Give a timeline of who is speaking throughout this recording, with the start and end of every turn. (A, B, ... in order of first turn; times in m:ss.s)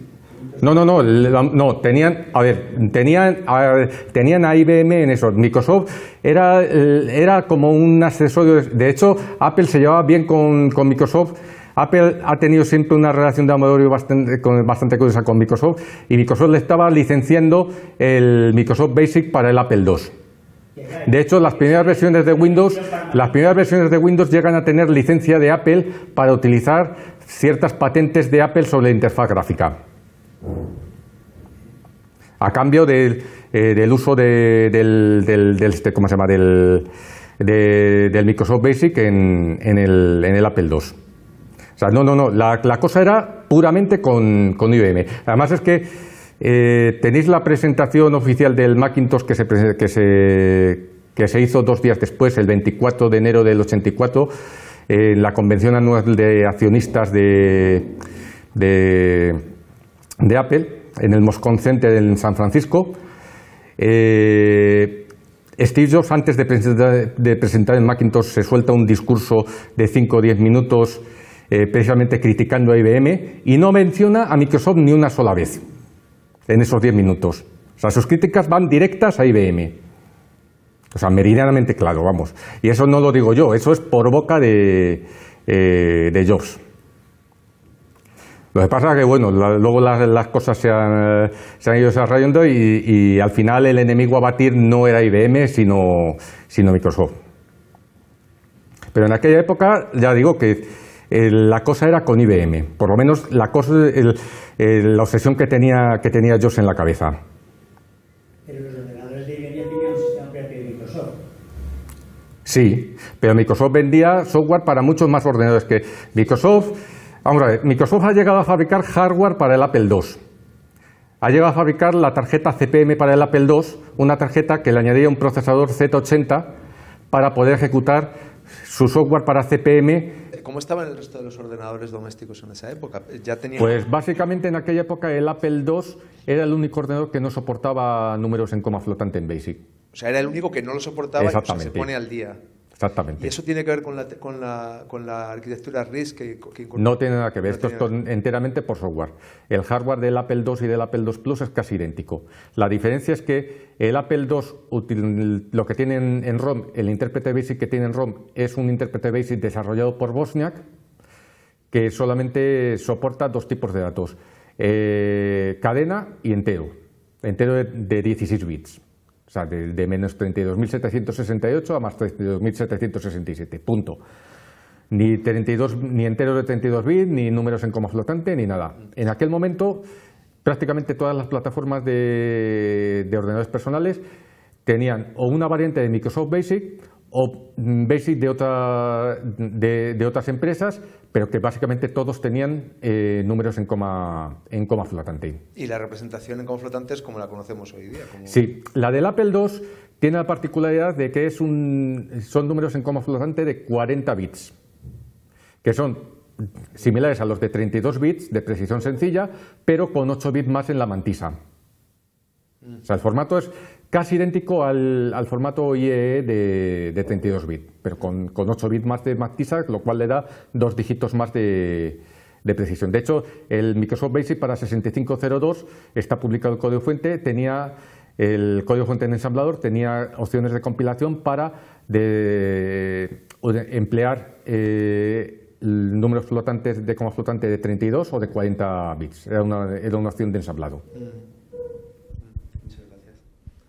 0:00.6-0:20.1 A
0:20.8-0:23.6 B
0:21.1-0:29.8 A
0:32.4-0:36.9 A
0:37.4-0:41.0 A
0:41.8-0:54.3 A
0:54.9-0:57.9 A
0:58.6-0:59.4 A
1:00.2-1:03.0 A
1:03.8-1:15.6 A
1:16.5-1:19.8 A
1:20.9-1:26.6 A
1:28.5-1:37.1 A
1:38.9-1:47.2 A
1:48.5-1:51.2 B
1:52.5-2:00.2 A
2:01.2-2:06.5 A
2:07.1-2:08.1 A
2:08.6-2:10.2 A
2:10.3-2:13.8 C
2:13.6-2:19.6 A
2:19.9-2:22.4 C
2:21.2-2:21.9 A
2:22.8-2:23.3 A
2:23.2-2:27.9 C
2:26.8-2:40.6 A
2:41.7-2:54.0 A
2:54.9-2:59.9 A
3:00.4-3:04.0 A
3:04.6-3:15.4 A
3:15.6-3:18.5 C
3:18.3-3:24.5 A
3:25.6-3:26.2 A
3:26.7-3:31.4 A
3:32.8-4:00.8 A
4:00.9-4:01.3 C
4:02.2-4:03.2 C